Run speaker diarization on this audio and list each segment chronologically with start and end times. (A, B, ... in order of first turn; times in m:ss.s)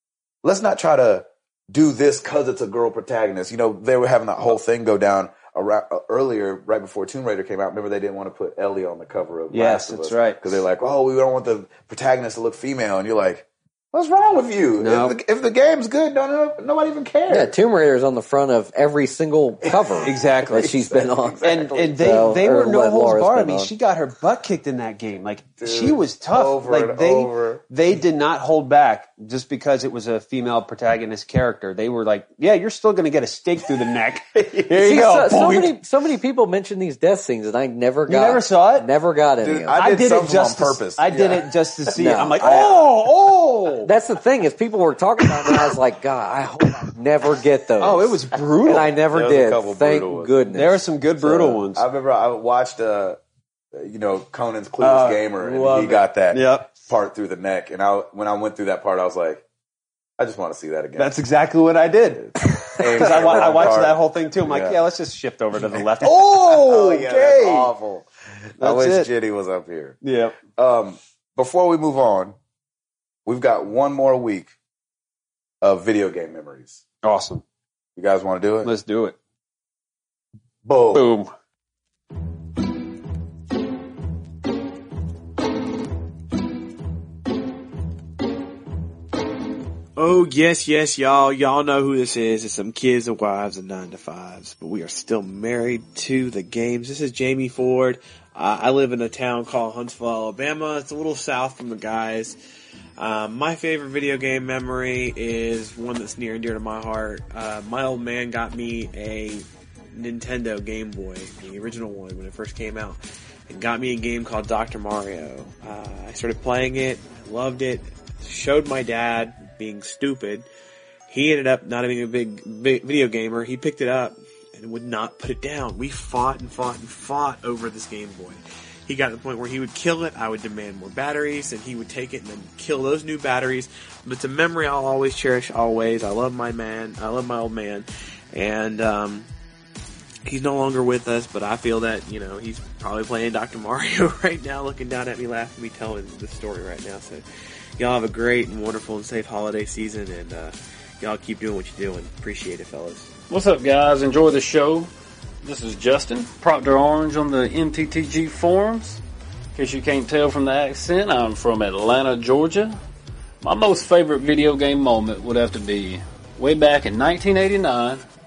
0:00.4-0:17.5 A
0:09.5-0:10.4 B
0:14.8-0:15.2 B
0:17.3-0:23.7 C
0:19.6-0:21.8 A
0:20.0-0:20.7 B
0:21.4-0:35.7 B
0:25.6-0:27.6 A
0:34.7-0:39.8 C
0:38.1-0:38.9 B
0:39.4-0:41.5 A
0:39.8-0:43.9 B
0:42.0-0:42.9 C
0:42.4-0:42.8 A
0:43.8-0:51.6 C
0:47.8-0:48.9 B
0:49.0-0:50.3 A
0:50.5-0:51.8 B
0:51.8-0:53.2 A
0:53.7-0:59.4 A
0:54.8-0:56.7 B
1:00.2-1:01.2 A
1:01.0-1:07.7 B
1:02.2-1:04.8 A
1:05.7-1:10.0 A
1:08.6-1:09.1 B
1:10.0-1:10.4 B
1:10.5-1:12.4 A
1:13.3-1:14.5 A
1:15.6-1:16.8 A
1:17.0-1:17.4 B
1:18.0-1:18.7 A
1:18.6-1:19.2 B
1:20.6-1:21.1 A
1:20.9-1:21.3 B
1:30.0-1:42.4 D
1:43.0-2:00.5 D
2:01.1-2:19.3 D
2:20.2-2:27.2 D
2:27.8-2:33.1 D
2:33.3-2:34.9 E
2:35.4-2:39.0 E
2:39.6-2:42.8 E
2:43.4-2:48.0 E